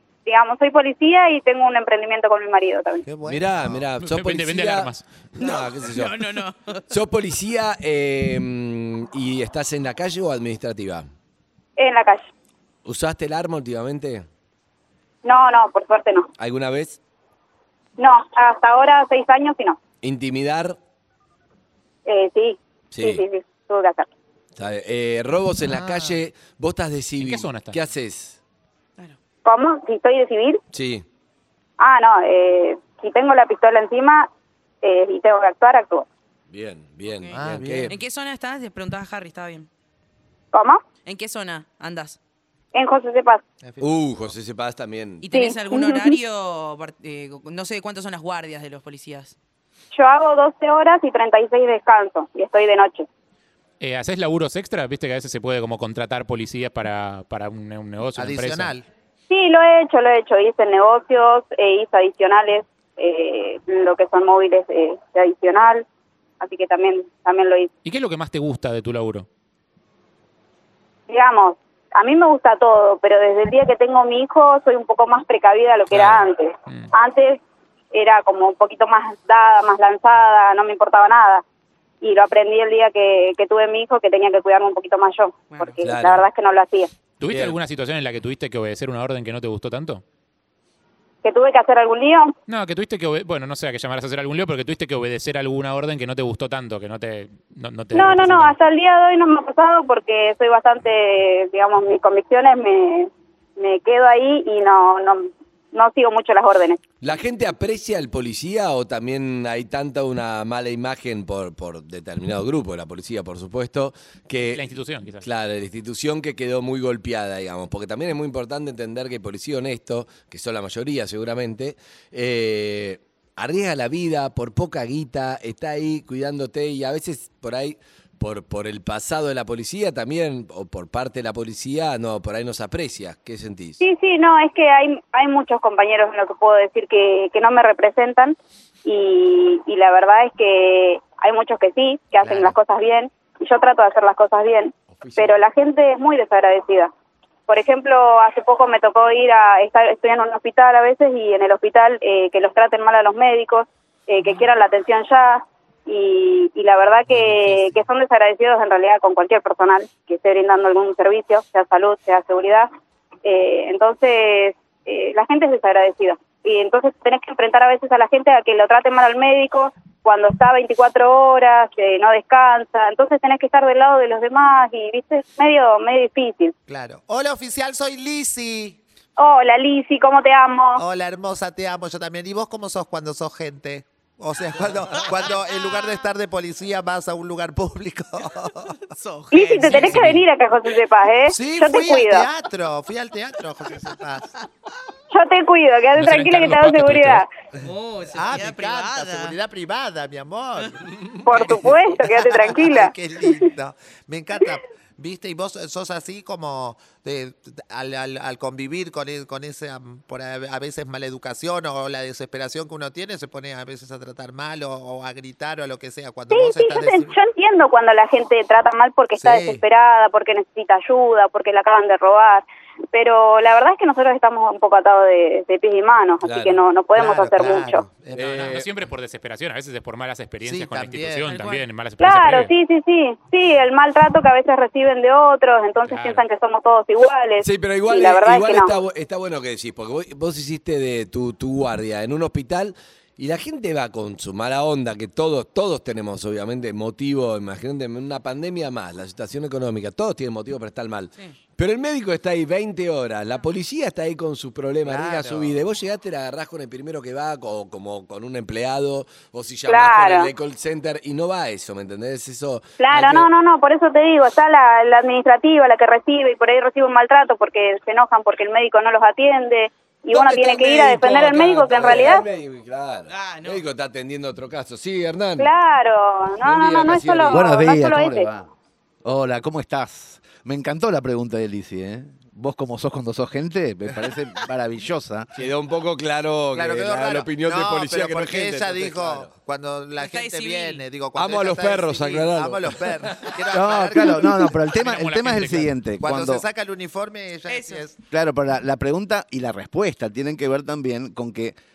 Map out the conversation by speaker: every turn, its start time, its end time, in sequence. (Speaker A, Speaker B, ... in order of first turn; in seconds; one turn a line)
Speaker A: 0.2-3.0
Speaker B: 3.0-3.8
Speaker C: 3.2-6.2
Speaker D: 4.0-5.1
Speaker E: 5.4-6.8
Speaker C: 6.9-11.1
Speaker A: 11.8-12.3
Speaker C: 12.8-14.2
Speaker A: 15.2-16.3
Speaker C: 16.4-17.0
Speaker A: 18.0-19.8
Speaker C: 20.0-20.8
Speaker A: 22.1-24.1
Speaker C: 22.9-23.2
Speaker C: 24.6-28.4
Speaker B: 25.6-26.2
Speaker D: 27.2-27.8
Speaker A: 29.4-30.6
Speaker C: 30.7-31.0
Speaker A: 31.8-34.3
Speaker A: 34.8-36.0
Speaker C: 36.5-37.9
Speaker E: 37.2-39.7
Speaker B: 37.3-38.0
Speaker A: 40.5-40.8
Speaker E: 41.0-42.2
Speaker A: 42.7-43.4
Speaker B: 43.6-44.1
Speaker C: 43.8-45.2
Speaker E: 45.2-49.3
Speaker A: 45.3-46.2
Speaker A: 49.9-53.1
Speaker D: 53.8-58.7
Speaker B: 58.1-58.9
Speaker A: 59.3-65.8
Speaker A: 66.4-67.7
Speaker D: 67.8-69.3
Speaker A: 71.1-77.4
Speaker D: 75.9-76.9
Speaker A: 77.9-81.4
Speaker A: 82.0-86.9
Speaker E: 85.5-85.8
Speaker C: 85.8-86.2
Speaker D: 87.2-90.0
Speaker C: 87.3-87.6
Speaker A: 91.2-92.3
Speaker D: 92.5-98.5
Speaker A: 97.9-106.8
Speaker C: 107.0-133.8
Speaker D: 114.5-115.2
Speaker A: 133.8-146.9
Speaker C: 142.2-142.5
Speaker C: 144.9-145.4
Speaker A: 147.5-162.7
Speaker D: 157.1-157.6
Speaker A: 163.2-176.5
Speaker B: 176.7-178.8
Speaker A: 179.2-180.8
Speaker B: 180.8-188.8
Speaker E: 188.9-190.0
Speaker A: 189.3-192.3
Speaker D: 189.7-190.2
Speaker B: 191.3-194.4
Speaker A: 195.1-197.3
Speaker D: 195.9-197.2
Speaker E: 197.6-199.3
Speaker B: 198.1-217.1
Speaker A: 201.2-203.4
Speaker A: 216.3-227.8
Speaker B: 219.2-219.6
Speaker C: 226.2-227.2
Speaker B: 226.9-228.6
Speaker C: 228.1-228.7
Speaker D: 228.2-232.5
Speaker B: 230.4-231.3
Speaker E: 231.3-231.7
Speaker A: 232.0-238.7
Speaker D: 235.9-236.2
Speaker C: 237.4-263.3
Speaker B: 254.8-255.6
Speaker A: 259.7-260.3
Speaker A: 262.8-272.2
Speaker B: 270.1-272.1
Speaker C: 270.6-275.5
Speaker E: 273.1-273.6
Speaker A: 275.4-278.3
Speaker C: 276.4-277.2
Speaker F: 276.9-278.5
Speaker F: 279.0-285.3
Speaker C: 285.4-289.3
Speaker B: 286.5-294.5
Speaker E: 290.0-290.8
Speaker C: 291.1-293.4
Speaker F: 293.5-296.4
Speaker D: 294.7-295.7
Speaker B: 296.0-298.0
Speaker E: 297.5-297.8
Speaker F: 298.1-301.6